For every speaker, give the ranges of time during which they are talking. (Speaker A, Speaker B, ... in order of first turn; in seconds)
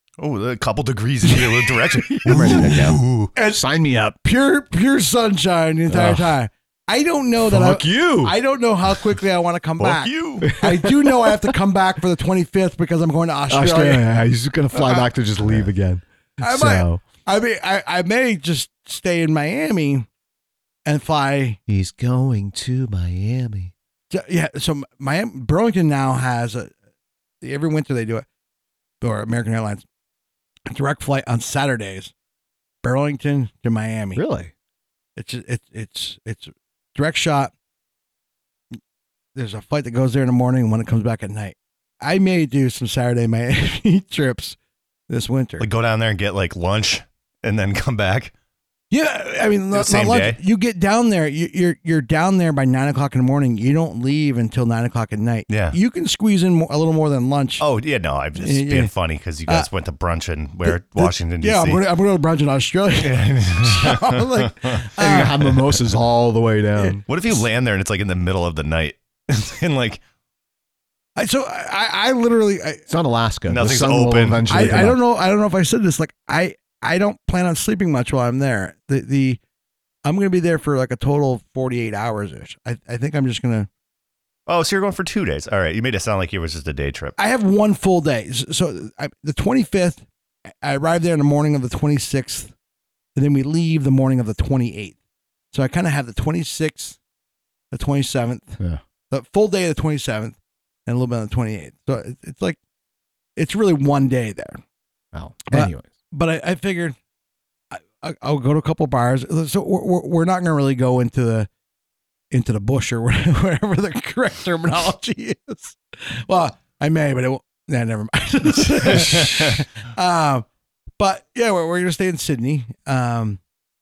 Speaker A: 0.2-3.3, 9.8-10.5, 45.6-48.3, 49.7-50.4, 55.5-55.8, 57.6-61.8, 63.0-64.8, 67.1-70.0, 73.5-74.9, 84.5-87.2
Speaker B: 1.3-2.8, 3.4-3.6, 4.2-14.1, 14.7-15.1, 16.4-20.1, 20.9-21.6, 24.1-26.7, 27.4-28.3, 29.0-29.9, 30.7-32.1, 32.8-34.2, 35.2-37.5, 39.4-44.6, 45.1-45.7, 48.9-57.6, 58.4-58.9, 60.7-65.3, 71.2-72.9, 74.5-79.4, 80.0-83.7, 87.2-90.0, 90.6-92.5, 93.2-95.0, 95.5-97.0, 97.7-102.6, 103.4-104.6, 105.5-107.0, 107.7-111.5, 112.3-120.5, 121.0-123.4
Speaker C: 2.2-4.2, 5.9-6.3, 7.4-8.4, 10.4-11.2, 13.5-17.0, 21.7-23.7, 34.1-34.5, 65.0-67.0, 72.9-75.0, 105.1-105.9